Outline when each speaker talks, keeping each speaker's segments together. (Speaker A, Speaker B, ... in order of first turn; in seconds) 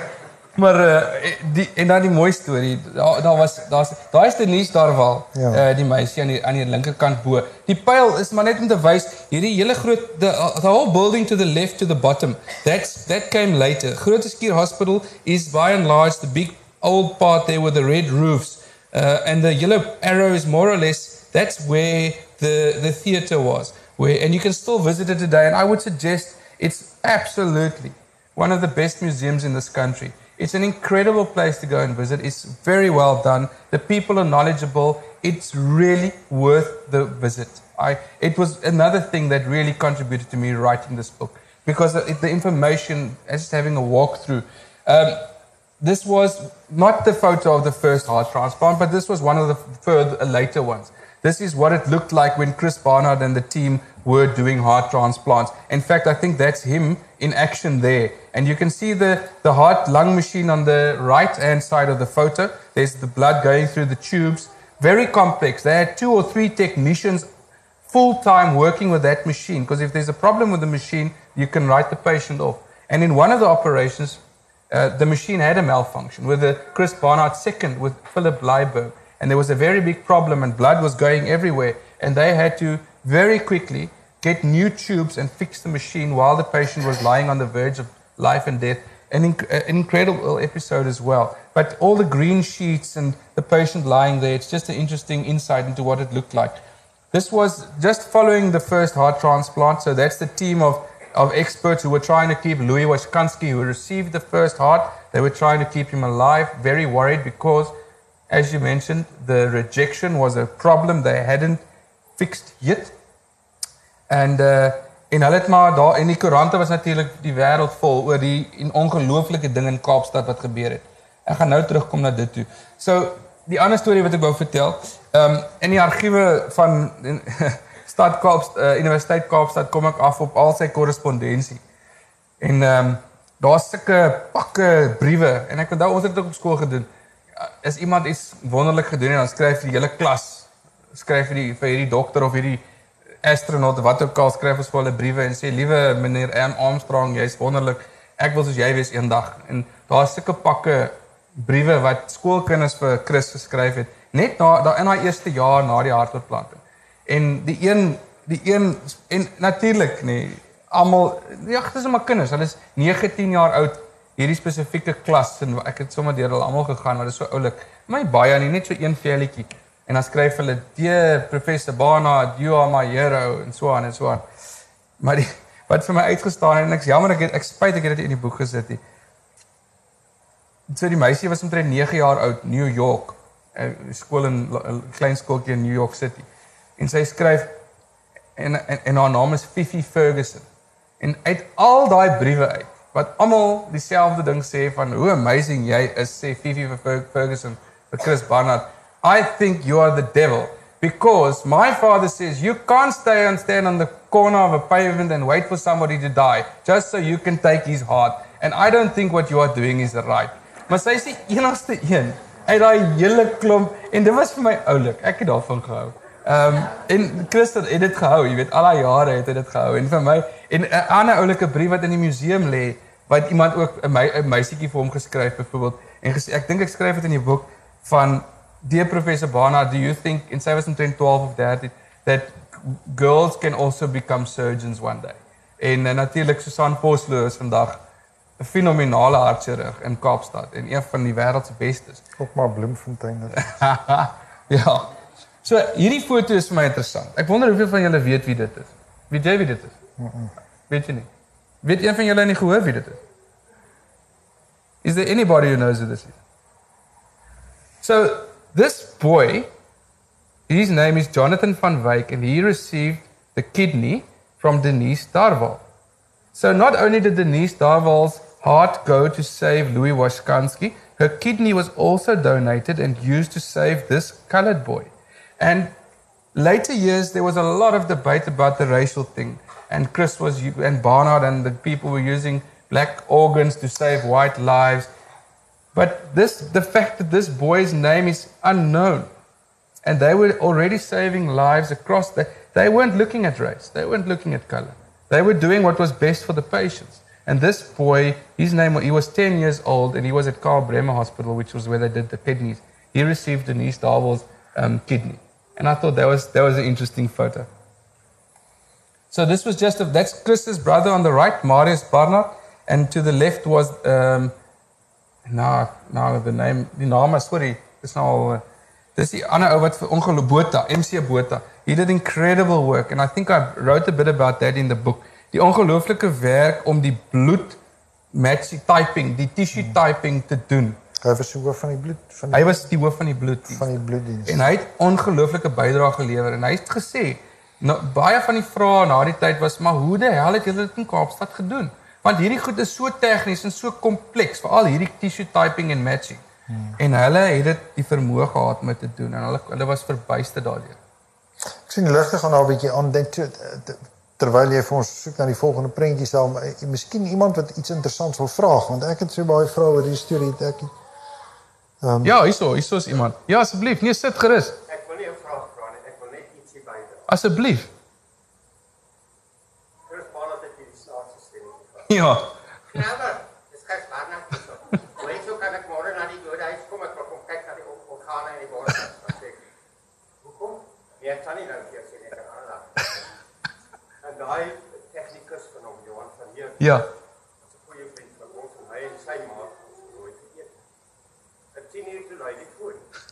Speaker A: 0.6-67.3, 67.9-96.6, 97.1-107.7, 108.3-111.6, 112.2-113.0, 114.1-131.6, 132.4-142.6, 143.2-174.2, 175.0-178.8, 180.7-186.3, 186.8-187.5, 188.4-190.5, 191.0-237.8, 238.4-242.0, 243.3-244.9, 245.4-249.8, 250.7-251.1, 251.6-253.0, 254.8-256.2, 257.8-259.5, 260.5-265.6, 266.3-275.7, 276.3-284.9, 285.7-289.1, 289.9-307.5, 309.1-314.3, 315.3-318.4, 318.9-327.6, 328.1-330.8, 332.3-346.2, 346.8-350.8, 362.0-364.6, 367.1-367.7, 371.9-372.3, 386.6-386.9
Speaker B: 5.3-5.6, 242.2-243.4, 250.0-250.3, 331.0-332.6, 333.5-334.5, 346.5-346.8, 351.7-360.7, 361.8-362.1
Speaker C: 364.7-367.1, 369.9-372.0, 372.7-379.4, 380.2-383.1, 384.0-386.9, 387.4-390.5, 391.5-392.9